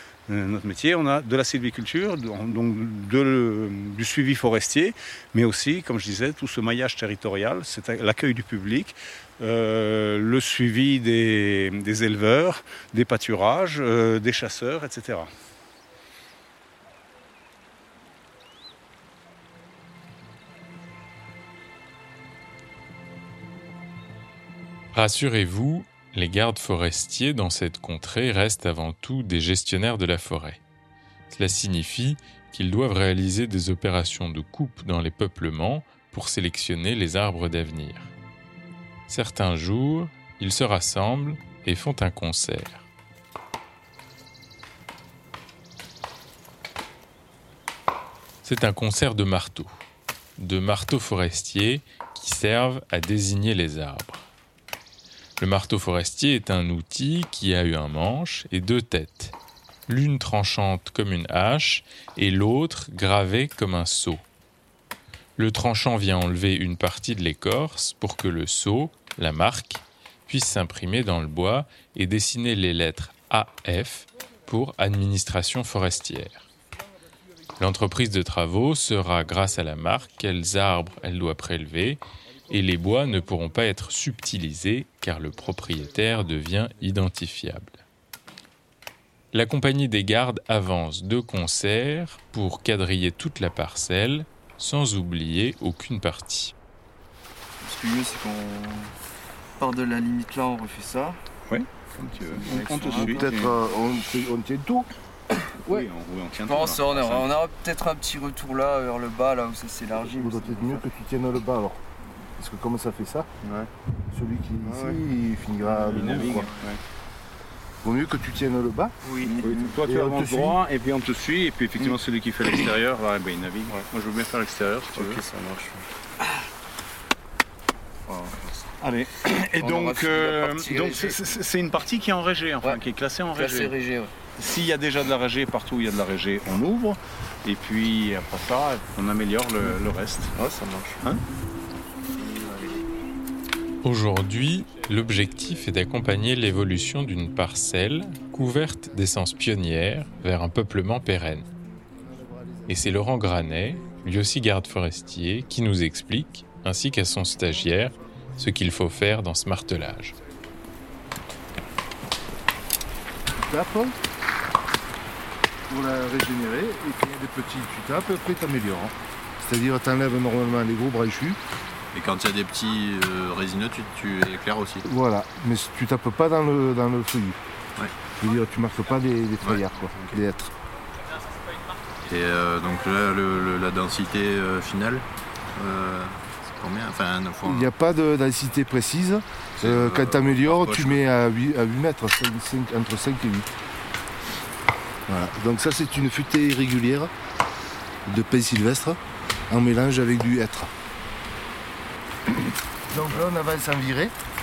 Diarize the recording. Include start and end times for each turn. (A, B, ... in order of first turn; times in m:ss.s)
0:00.3-0:15.3 A
0:24.9-0:30.6 B
0:31.3-0:38.1 B
0:39.1-0:42.9 B
0:48.4-0:49.7 B
0:50.4-0:54.2 B
0:55.4-0:59.3 B
0:59.9-1:04.2 B
1:05.4-1:16.5 B
1:17.6-1:27.8 B
1:29.3-1:36.5 B
1:37.6-1:38.9 C
1:39.6-1:41.2 C
1:41.5-1:43.6 A
1:42.2-1:43.3 C
1:43.0-1:44.9 D
1:45.3-1:50.9 C
1:45.7-1:47.3 A
1:50.0-1:51.8 D
1:52.4-1:53.3 D
1:53.4-1:53.7 A
1:54.1-1:56.5 D
1:54.6-1:55.0 C
1:55.6-1:56.8 A
1:55.9-1:56.5 C
1:57.8-1:59.0 D
1:59.0-1:59.8 C
1:59.4-2:05.2 A
1:59.7-2:00.6 D
2:04.9-2:05.8 C
2:08.1-2:11.2 C
2:08.8-2:13.7 A
2:13.3-2:14.1 C
2:14.4-2:20.3 A
2:20.3-2:21.0 C
2:22.1-2:22.8 C
2:23.8-2:31.4 B
2:32.6-2:40.1 B
2:43.4-2:43.9 D
2:45.7-2:51.4 D
2:51.9-2:54.8 E
2:54.8-2:57.4 D
2:58.2-3:00.5 D
2:59.4-3:00.2 E
3:02.0-3:07.7 E
3:07.4-3:13.5 D
3:09.6-3:11.0 E
3:15.1-3:17.1 D
3:18.0-3:20.7 D
3:22.9-3:24.1 D